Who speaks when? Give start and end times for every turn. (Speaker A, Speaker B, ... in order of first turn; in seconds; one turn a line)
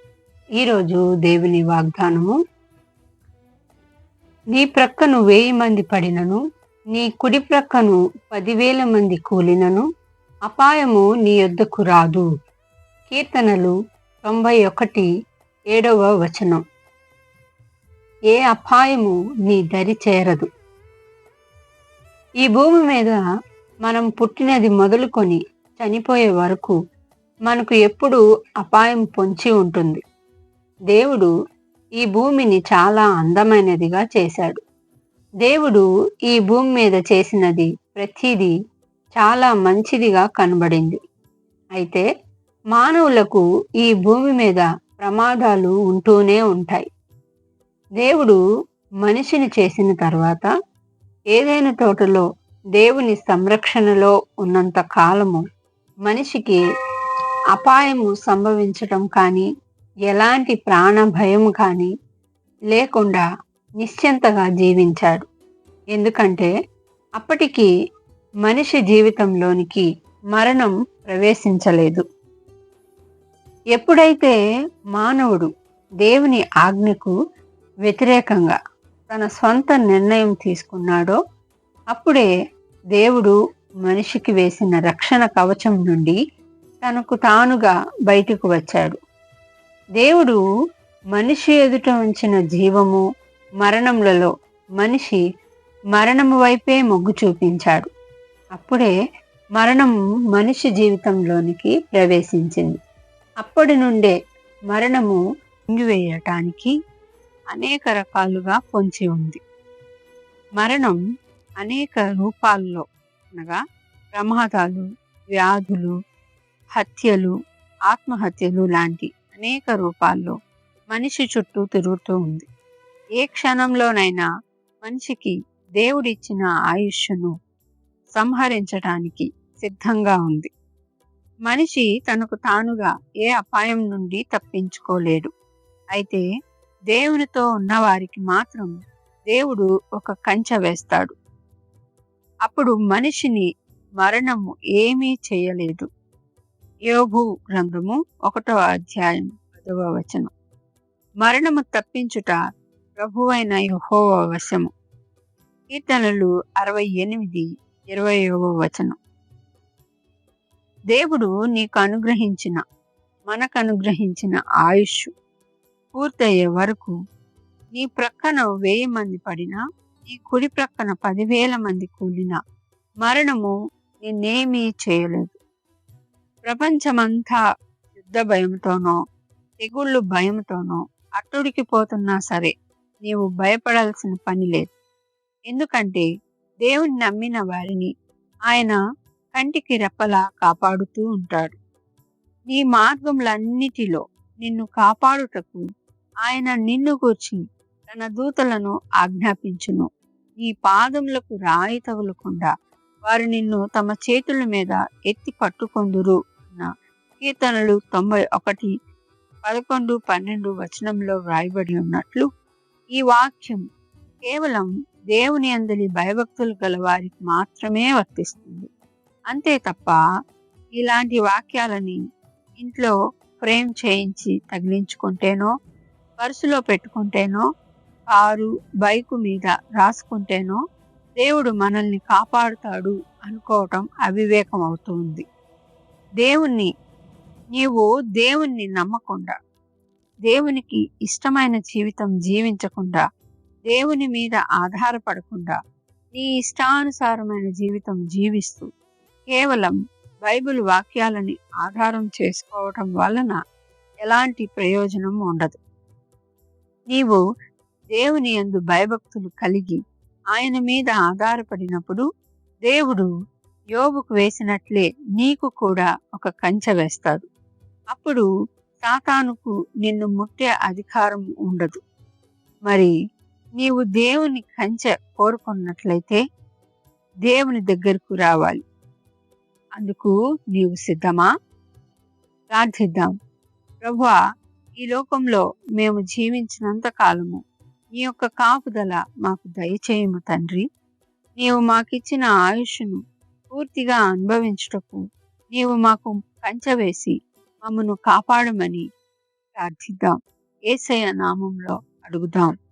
Speaker A: 0.6-2.3
Speaker A: 4.5-6.4
Speaker A: 6.9-9.8
Speaker A: 10.5-12.3
Speaker A: 13.1-15.1
Speaker A: 15.7-16.6
Speaker A: 18.3-20.5
Speaker A: 22.4-23.2
Speaker A: 23.8-26.8
Speaker A: 27.5-30.0
Speaker A: 30.9-31.3
Speaker A: 32.0-34.6
Speaker A: 35.4-38.5
Speaker A: 39.1-41.0
Speaker A: 41.8-42.0
Speaker A: 42.7-46.9
Speaker A: 48.0-48.4
Speaker A: 49.0-50.5
Speaker A: 51.3-52.2
Speaker A: 52.8-55.4
Speaker A: 56.0-56.6
Speaker A: 57.5-59.5
Speaker A: 60.1-61.9
Speaker A: 62.7-63.2
Speaker A: 63.8-65.2
Speaker A: 65.9-66.5
Speaker A: 67.2-67.7
Speaker A: 68.4-72.0
Speaker A: 73.7-74.3
Speaker A: 74.9-75.5
Speaker A: 76.0-77.1
Speaker A: 77.8-78.5
Speaker A: 79.1-81.2
Speaker A: 81.9-82.3
Speaker A: 83.0-83.3
Speaker A: 83.8-86.2
Speaker A: 86.8-89.0
Speaker A: 90.0-90.4
Speaker A: 91.1-93.0
Speaker A: 93.6-95.2
Speaker A: 95.9-97.9
Speaker A: 98.6-98.9
Speaker A: 99.6-102.7
Speaker A: 103.4-104.1
Speaker A: 104.7-105.2
Speaker A: 105.7-106.7
Speaker A: 107.5-109.4
Speaker A: 110.6-111.0
Speaker A: 111.6-112.8
Speaker A: 113.3-113.6
Speaker A: 114.1-115.9
Speaker A: 116.8-117.3
Speaker A: 117.9-120.3
Speaker A: 120.9-122.5
Speaker A: 123.2-124.3
Speaker A: 124.8-127.3
Speaker A: 128.2-130.5
Speaker A: 131.5-135.3
Speaker A: 135.9-136.2
Speaker A: 136.9-138.7
Speaker A: 139.3-141.1
Speaker A: 142.4-143.4
Speaker A: 144.0-145.9
Speaker A: 146.9-150.3
Speaker A: 151.2-152.4
Speaker A: 153.0-154.7
Speaker A: 155.7-158.9
Speaker A: 160.9-162.6
Speaker A: 163.3-165.1
Speaker A: 165.9-166.9
Speaker A: 167.7-172.4
Speaker A: 173.0-175.4
Speaker A: 176.4-177.4
Speaker A: 178.0-179.0
Speaker A: 179.6-182.5
Speaker A: 183.0-184.7
Speaker A: 185.5-186.1
Speaker A: 186.6-187.9
Speaker A: 188.5-188.8
Speaker A: 189.3-191.6
Speaker A: 192.5-195.6
Speaker A: 196.2-199.9
Speaker A: 200.4-202.5
Speaker A: 203.1-206.7
Speaker A: 207.2-208.7
Speaker A: 209.4-212.3
Speaker A: 212.9-213.6
Speaker A: 214.3-218.7
Speaker A: 219.3-220.0
Speaker A: 220.8-222.0
Speaker A: 222.6-225.5
Speaker A: 226.2-227.4
Speaker A: 228.1-230.6
Speaker A: 231.2-235.2
Speaker A: 236.2-236.7
Speaker A: 237.5-239.3
Speaker A: 240.3-243.0
Speaker A: 243.7-245.6
Speaker A: 246.1-248.7
Speaker A: 249.3-253.4
Speaker A: 254.0-255.6
Speaker A: 256.9-257.2
Speaker A: 257.9-259.8
Speaker A: 260.3-262.0
Speaker A: 262.6-263.1
Speaker A: 263.7-267.2
Speaker A: 267.9-268.3
Speaker A: 268.8-271.8
Speaker A: 273.6-276.2
Speaker A: 277.2-278.6
Speaker A: 279.8-281.3
Speaker A: 282.5-283.1
Speaker A: 283.8-284.2
Speaker A: 284.8-287.4
Speaker A: 288.0-290.6
Speaker A: 291.4-293.0
Speaker A: 293.5-295.0
Speaker A: 295.5-297.1
Speaker A: 297.6-298.8
Speaker A: 299.6-300.1
Speaker A: 300.7-302.5